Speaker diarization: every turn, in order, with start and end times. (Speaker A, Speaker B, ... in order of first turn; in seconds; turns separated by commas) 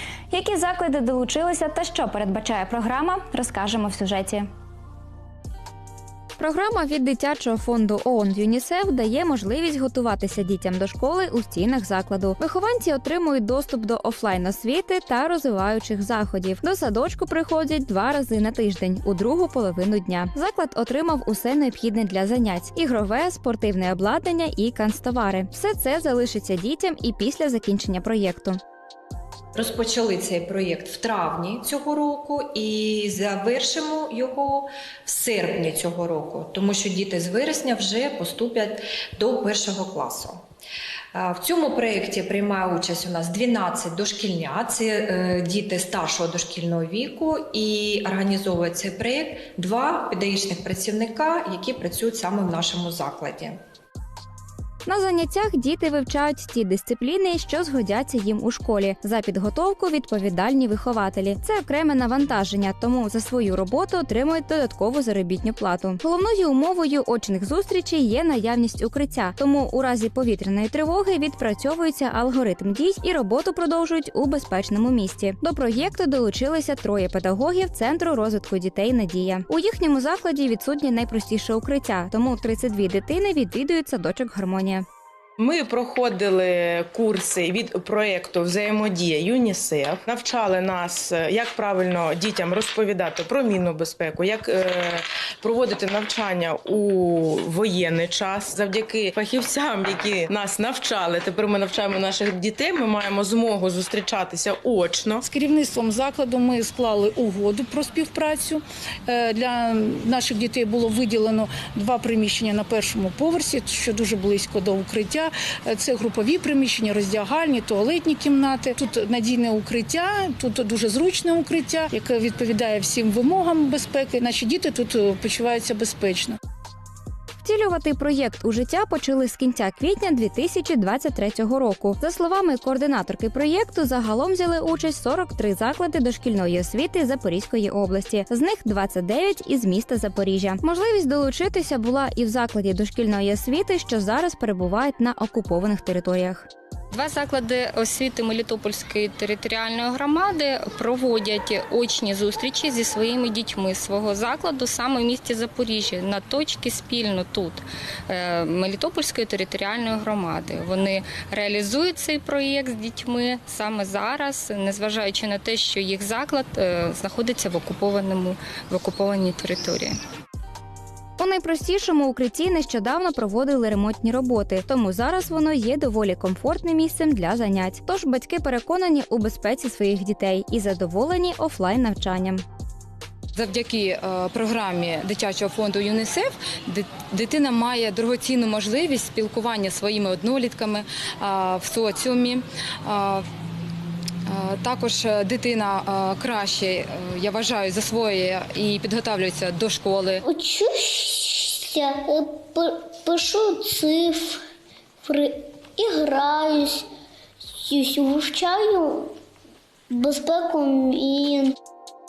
Speaker A: 0.3-4.5, Speaker A: 6.4-28.6, Speaker B: 29.6-40.4, Speaker B: 41.1-53.6, Speaker A: 54.9-84.8, Speaker C: 85.4-105.2, Speaker D: 105.3-126.4, Speaker A: 127.4-146.5, Speaker E: 146.9-169.9, Speaker A: 171.2-182.4, Speaker F: 183.3-193.2, Speaker F: 194.3-200.2, Speaker G: 200.2-204.4, Speaker G: 205.1-206.9, Speaker G: 207.6-209.1, Speaker G: 209.9-211.6